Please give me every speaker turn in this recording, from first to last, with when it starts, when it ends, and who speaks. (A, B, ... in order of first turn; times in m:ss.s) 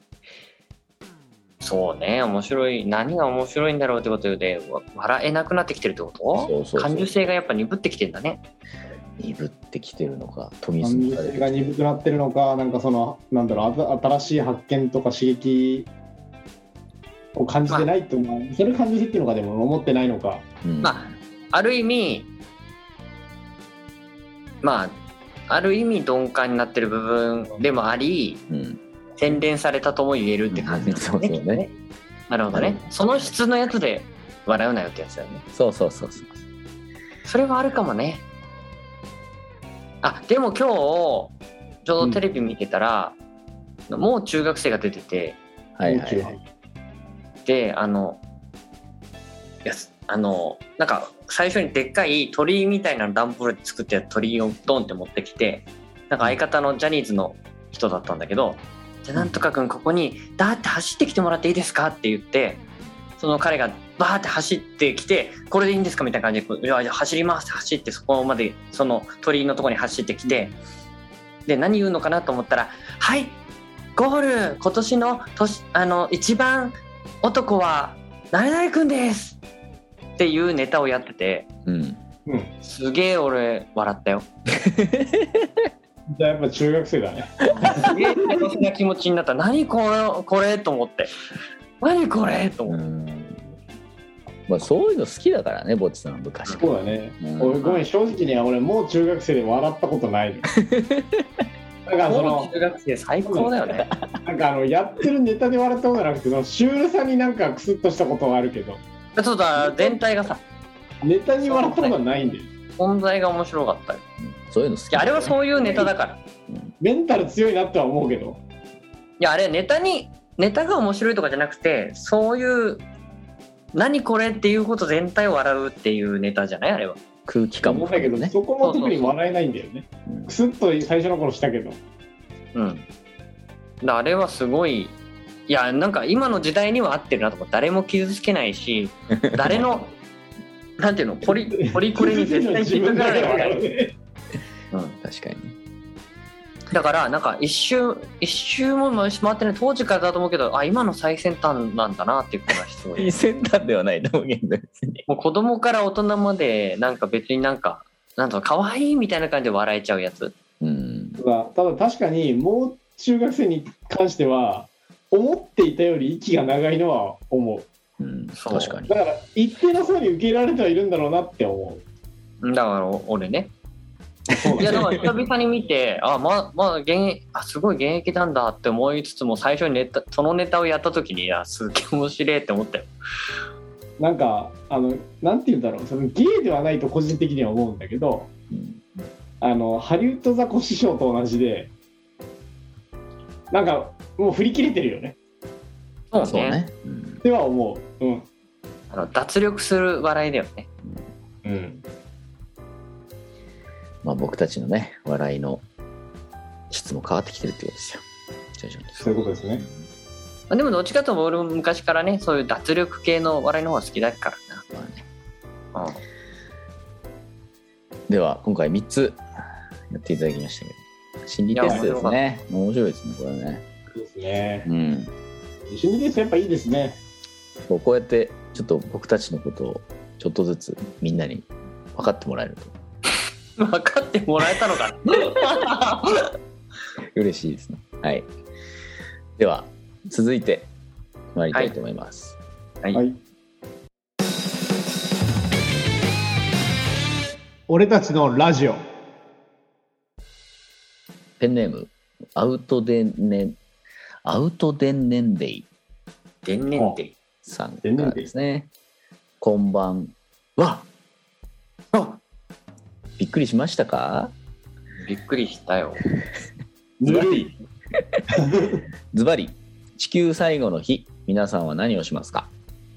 0:01.6-0:08.4 A
0:06.4-0:07.1 B
0:09.2-0:11.7 B
0:10.8-0:15.9 C
0:17.4-0:20.4 C
0:20.6-0:21.1 B
0:20.8-0:22.3 A
0:24.6-0:28.4 A
0:28.5-0:28.8 B
0:29.2-0:31.7 A
0:30.5-0:31.6 B
0:32.3-0:35.4 A
0:32.5-0:32.8 B
0:35.5-0:36.4 B
0:37.2-0:38.2 A
0:40.0-0:43.2 A
0:43.9-0:45.4 A
0:45.8-0:46.4 B
0:45.8-0:46.4 C
0:47.4-0:48.2 A
0:49.6-1:02.6 A
0:59.2-0:59.4 B
1:03.2-1:10.6 A
1:11.4-1:13.4 A
1:14.0-1:19.4 A
1:20.2-1:21.5 A
1:21.7-1:22.0 B
1:22.2-1:22.5 C
1:22.6-1:24.2 A
1:24.6-1:25.7 B
1:26.1-1:28.4 C
1:27.5-1:31.1 A
1:31.8-1:32.8 A
1:32.7-1:33.4 B
1:34.5-1:37.6 B
1:36.6-1:40.5 C
1:37.6-1:37.9 A
1:40.6-1:41.2 B
1:41.9-1:42.5 C
1:42.0-1:43.9 A
1:43.2-1:43.6 C
1:44.2-1:48.8 C
1:49.1-1:50.4 A
1:49.6-1:50.0 C
1:51.0-1:52.5 C
1:51.4-1:52.0 A
1:52.8-1:54.0 A
1:54.2-1:55.4 B
1:54.9-1:56.2 A
1:55.6-1:55.9 C
1:56.8-1:58.4 C
1:59.2-2:02.8 A
2:03.7-2:07.0 A
2:07.3-2:08.3 B
2:07.6-2:11.8 C
2:08.6-2:09.2 A
2:10.1-2:10.3 B
2:12.5-2:12.9 A
2:13.8-2:15.0 A
2:15.5-2:19.9 A
2:19.3-2:19.6 B
2:20.8-2:23.6 A
2:21.2-2:23.9 C
2:24.7-2:25.0 A
2:25.0-2:25.6 B
2:26.7-2:33.2 A
2:32.9-2:35.1 B
2:35.1-2:40.3 A
2:40.6-2:41.2 B
2:41.2-2:47.7 C
2:48.0-2:48.9 B
2:48.4-2:48.8 A
2:48.7-2:51.8 C
2:52.4-2:53.5 A
2:54.3-2:54.9 C
2:54.6-2:55.1 B
2:54.6-3:02.9 A
3:04.0-3:08.3 C
3:08.5-3:08.8 B
3:09.4-3:11.7 C
3:13.5-3:15.2 C
3:16.1-3:16.6 A
3:16.2-3:17.2 B
3:17.2-3:18.3 C
3:18.9-3:20.7 A
3:21.4-3:21.8 C
3:24.0-3:25.6 B
3:26.7-3:28.0 B
3:28.6-3:29.1 B
3:29.0-3:29.6 C
3:30.5-3:34.6 A
3:34.7-3:35.1 B
3:35.7-3:36.0 A
3:38.1-3:39.2 B
3:39.9-3:43.6 B
3:41.5-3:42.2 A
3:41.6-3:41.9 C
3:43.9-3:44.7 C
3:44.6-3:45.1 B
3:45.7-3:47.0 C
3:47.7-3:52.7 B
3:53.6-3:56.3 A
3:57.2-3:58.3 B
3:59.4-4:00.7 B
4:01.3-4:02.4 B
4:07.7-4:08.8 C
4:11.4-4:13.6 B
4:14.2-4:15.7 B
4:16.4-4:17.2 A
4:17.4-4:18.7 B
4:17.8-4:18.3 C
4:19.4-4:20.9 B
4:23.2-4:24.3 B
4:25.0-4:26.0 A
4:27.0-4:27.5 C
4:27.1-4:27.4 B
4:28.4-4:28.8 C
4:29.1-4:32.5 B